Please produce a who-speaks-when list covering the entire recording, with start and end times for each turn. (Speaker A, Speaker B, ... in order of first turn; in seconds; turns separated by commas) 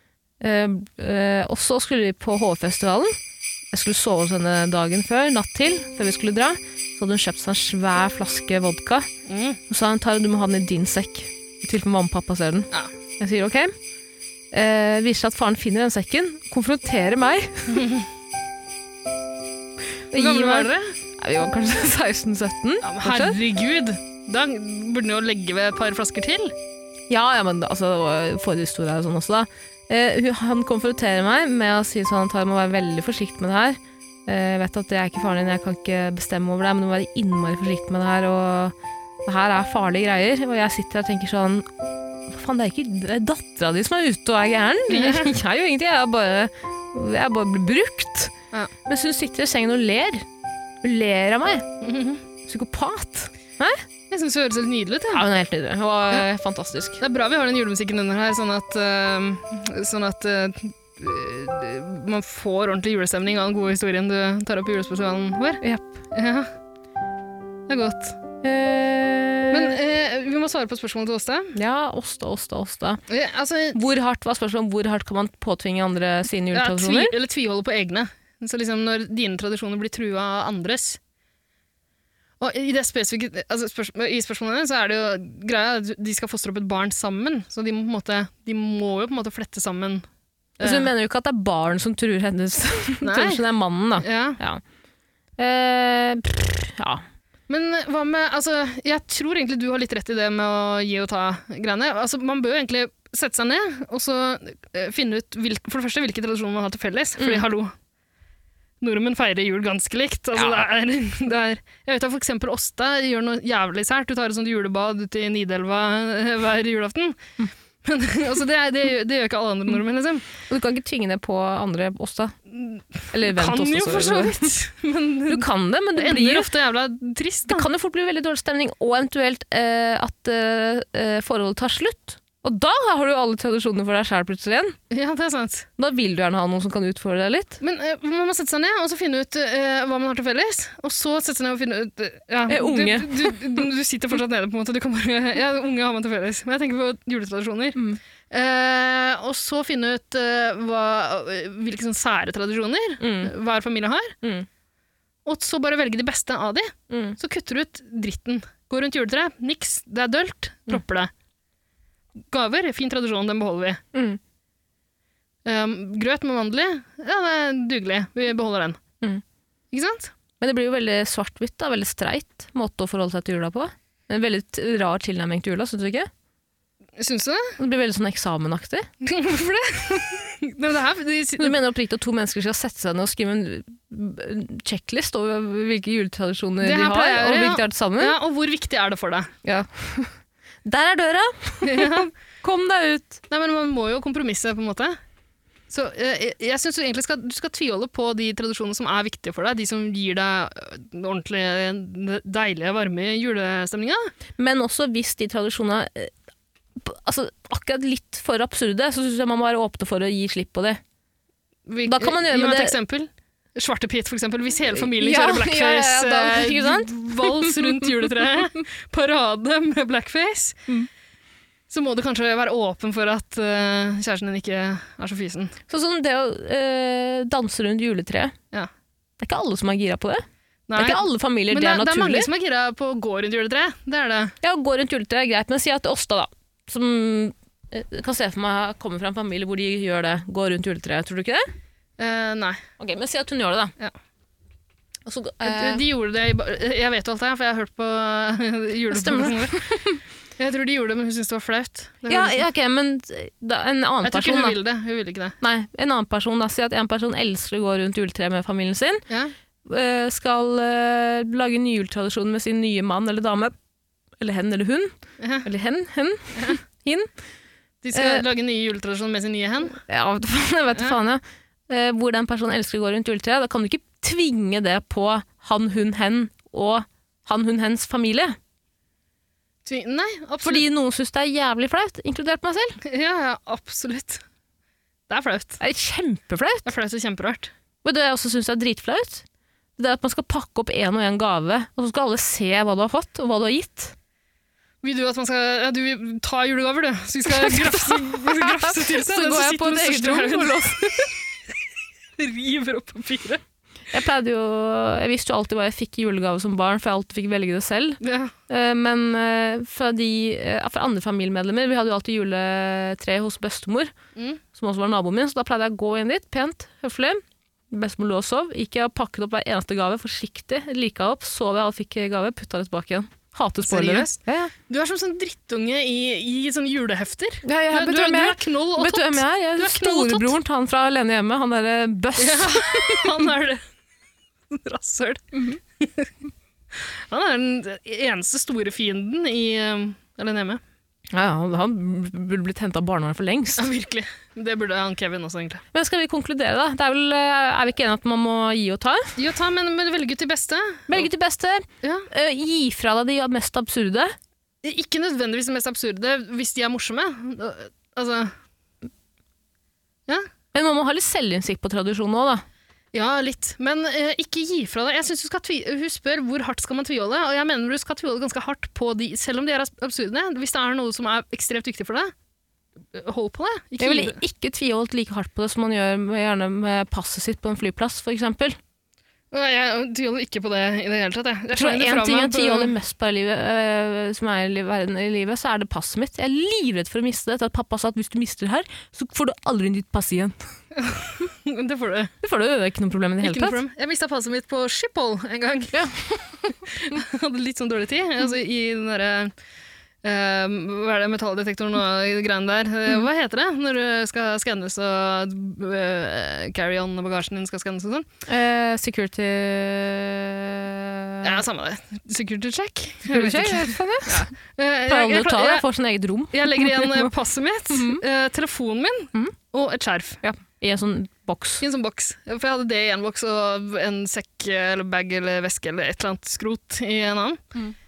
Speaker A: 0.4-3.2, Speaker A: 3.7-9.1, Speaker B: 9.3-9.6, Speaker A: 9.7-13.7, Speaker A: 14.5-17.8, Speaker B: 17.7-18.0, Speaker A: 20.1-23.4, Speaker B: 20.1-20.9, Speaker B: 22.8-26.5, Speaker A: 27.1-41.7, Speaker A: 42.3-48.3, Speaker B: 44.9-45.3, Speaker A: 48.9-50.3, Speaker A: 50.8-51.7, Speaker B: 51.8-52.2, Speaker A: 52.5-53.8, Speaker B: 54.1-55.2, Speaker A: 55.1-57.0, Speaker B: 57.0-66.5, Speaker A: 65.6-65.9, Speaker B: 67.7-68.2, Speaker A: 68.4-69.8, Speaker B: 69.5-71.5, Speaker A: 71.5-73.0, Speaker B: 73.1-73.8, Speaker A: 73.7-77.2, Speaker B: 76.5-81.0, Speaker B: 82.4-90.0, Speaker B: 90.6-90.9, Speaker A: 90.6-94.6, Speaker B: 93.0-93.4, Speaker B: 94.0-94.4, Speaker A: 95.4-97.0, Speaker B: 97.5-107.7, Speaker A: 107.2-107.5, Speaker B: 108.8-117.2, Speaker A: 110.3-110.7, Speaker B: 117.8-120.3, Speaker A: 120.5-122.4, Speaker B: 122.5-127.7, Speaker A: 123.1-124.5, Speaker A: 125.3-126.5, Speaker A: 127.5-134.8, Speaker B: 134.9-135.7, Speaker A: 135.8-137.6, Speaker B: 137.6-147.8, Speaker A: 142.5-143.6, Speaker B: 148.3-154.2, Speaker A: 153.0-153.3, Speaker A: 154.2-154.5, Speaker B: 155.2-161.1, Speaker A: 156.9-157.2, Speaker B: 162.3-163.8, Speaker A: 163.9-164.2, Speaker B: 165.5-168.8, Speaker B: 169.7-170.1, Speaker A: 170.4-176.1, Speaker B: 177.0-177.6, Speaker A: 177.6-178.9, Speaker B: 179.0-181.5, Speaker A: 181.4-188.2, Speaker B: 186.6-189.3, Speaker A: 189.4-193.2, Speaker B: 191.6-192.1, Speaker B: 193.3-195.0, Speaker B: 195.7-204.1, Speaker A: 204.4-206.1, Speaker A: 206.8-210.8, Speaker B: 211.7-220.6, Speaker A: 211.8-212.8, Speaker A: 214.7-217.9, Speaker B: 221.7-225.6, Speaker A: 225.7-228.3, Speaker A: 229.2-230.2, Speaker B: 230.7-234.3, Speaker A: 230.8-232.3, Speaker A: 234.4-241.4, Speaker B: 242.0-242.6, Speaker A: 242.8-243.7, Speaker A: 245.1-245.8, Speaker B: 245.4-249.8, Speaker A: 248.9-250.0, Speaker B: 250.4-252.5, Speaker A: 252.1-254.6, Speaker B: 254.0-255.4, Speaker A: 255.4-259.0, Speaker A: 259.6-263.5, Speaker A: 264.2-267.1, Speaker B: 265.2-265.5, Speaker B: 267.8-269.8, Speaker A: 267.9-268.2, Speaker A: 269.8-278.4, Speaker B: 279.6-280.6, Speaker A: 280.4-282.8, Speaker B: 282.8-284.2, Speaker B: 285.1-285.6, Speaker A: 285.6-286.7, Speaker B: 286.6-287.5, Speaker A: 287.8-289.2, Speaker A: 289.8-293.9, Speaker B: 294.8-301.1, Speaker A: 297.3-301.1, Speaker B: 302.2-303.4, Speaker A: 303.9-313.9, Speaker B: 308.0-308.3, Speaker B: 314.2-314.4, Speaker A: 314.5-324.5, Speaker B: 323.6-330.4, Speaker A: 327.4-333.3, Speaker B: 332.2-333.6, Speaker B: 334.5-335.2, Speaker B: 335.8-336.1, Speaker B: 336.9-340.6, Speaker A: 341.1-343.7, Speaker B: 343.6-345.6, Speaker A: 345.7-349.1, Speaker B: 349.2-351.1, Speaker A: 350.9-354.1, Speaker B: 351.8-352.1, Speaker B: 354.6-358.3, Speaker A: 360.5-362.4, Speaker B: 362.9-372.1, Speaker B: 372.9-374.2, Speaker A: 373.8-378.6, Speaker B: 379.3-382.7, Speaker A: 381.5-390.4, Speaker B: 390.8-392.1, Speaker A: 392.2-393.6, Speaker B: 393.2-395.8, Speaker A: 395.7-396.5, Speaker B: 396.7-399.3, Speaker B: 400.0-408.1, Speaker A: 408.3-411.4, Speaker B: 411.2-415.6, Speaker A: 413.1-414.3, Speaker A: 414.9-417.1, Speaker B: 416.3-420.2, Speaker A: 417.7-418.0, Speaker A: 420.2-421.6, Speaker B: 421.6-427.4